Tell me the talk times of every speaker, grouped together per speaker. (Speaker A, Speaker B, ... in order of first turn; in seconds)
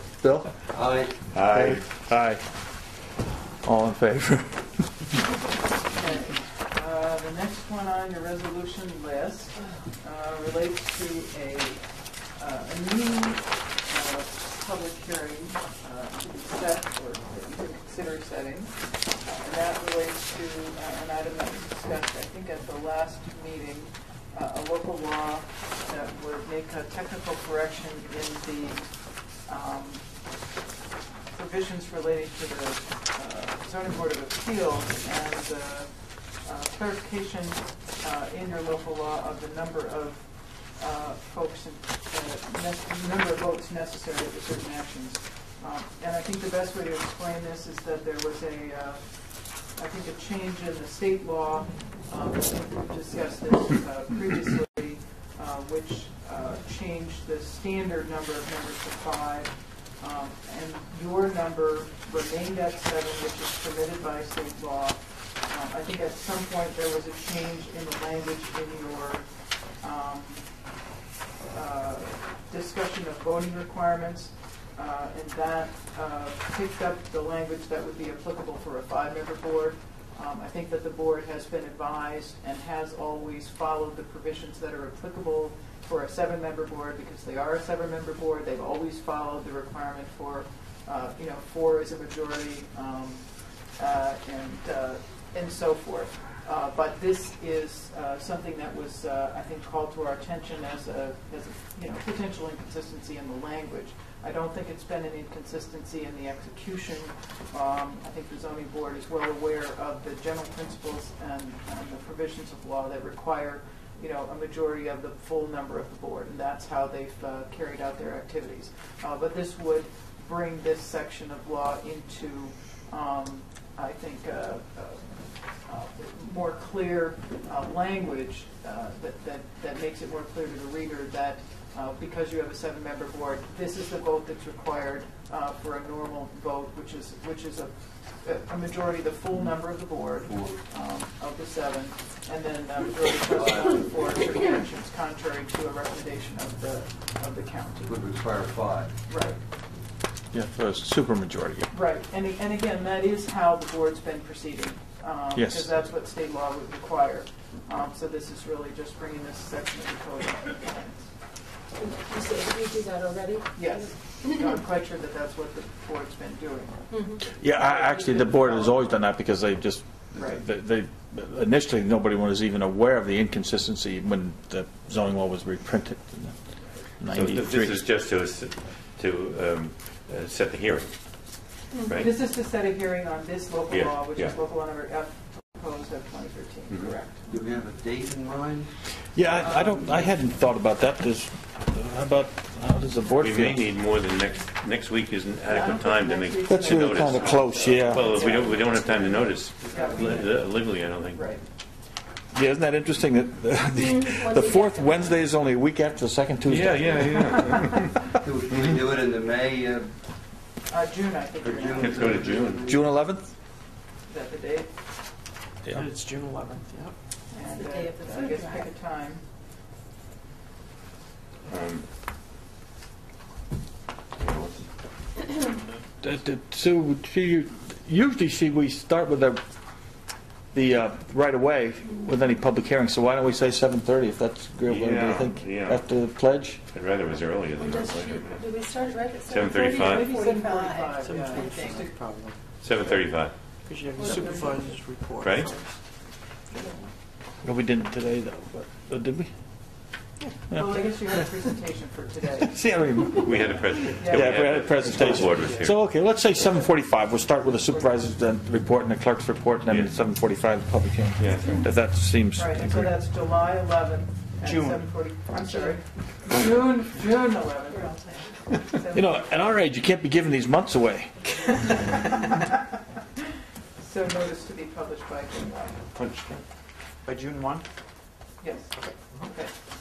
Speaker A: 0.2-0.5, 1.5-2.4, 3.6-4.6, 150.3-151.7, 155.3-155.7, 167.3-176.3, 177.0-177.8, 189.1-193.7, 196.5-198.2, 202.3-207.7, 212.7-213.3, 226.0-229.4, 230.5-236.6, 247.4-249.3, 252.4-263.0, 264.4-264.8, 268.9-271.1
Speaker B: 0.7-1.1, 140.2-140.6, 143.3-144.2, 147.8-148.9, 187.3-188.7, 199.6-200.3, 208.2-209.9, 211.4-212.8
Speaker C: 1.3-1.9, 177.1-180.9, 181.8-182.1, 183.7-184.3, 193.2-201.3, 206.4-207.9, 211.8-212.7, 221.5-221.8, 224.2-224.6, 234.7-235.8, 236.7-238.5, 239.2-240.1, 242.6-243.3, 245.2-245.5, 253.2-255.8, 259.7-259.9, 261.2-261.6, 275.9-276.4
Speaker D: 5.9-30.1, 31.3-69.3, 69.8-70.7, 71.5-147.9, 149.1-149.4, 151.7-161.1, 163.5-166.8, 167.6-168.8, 170.2-170.4, 181.9-187.3, 195.5-198.8, 199.7-200.2, 201.1-201.4, 210.7-212.2, 214.1-214.7, 217.3-219.2, 239.7-241.9, 250.5-252.6, 253.3-255.0, 262.4-269.2, 271.5-272.6, 273.8-275.8, 277.1-277.6, 278.4-278.8
Speaker E: 161.8-164.5, 166.9-167.3, 181.7-182.0, 203.7-205.2, 217.5-218.7, 237.6-241.9, 244.0-244.8, 265.4-265.8, 267.7-268.3
Speaker F: 215.7-216.9, 241.0-242.3, 243.7-245.7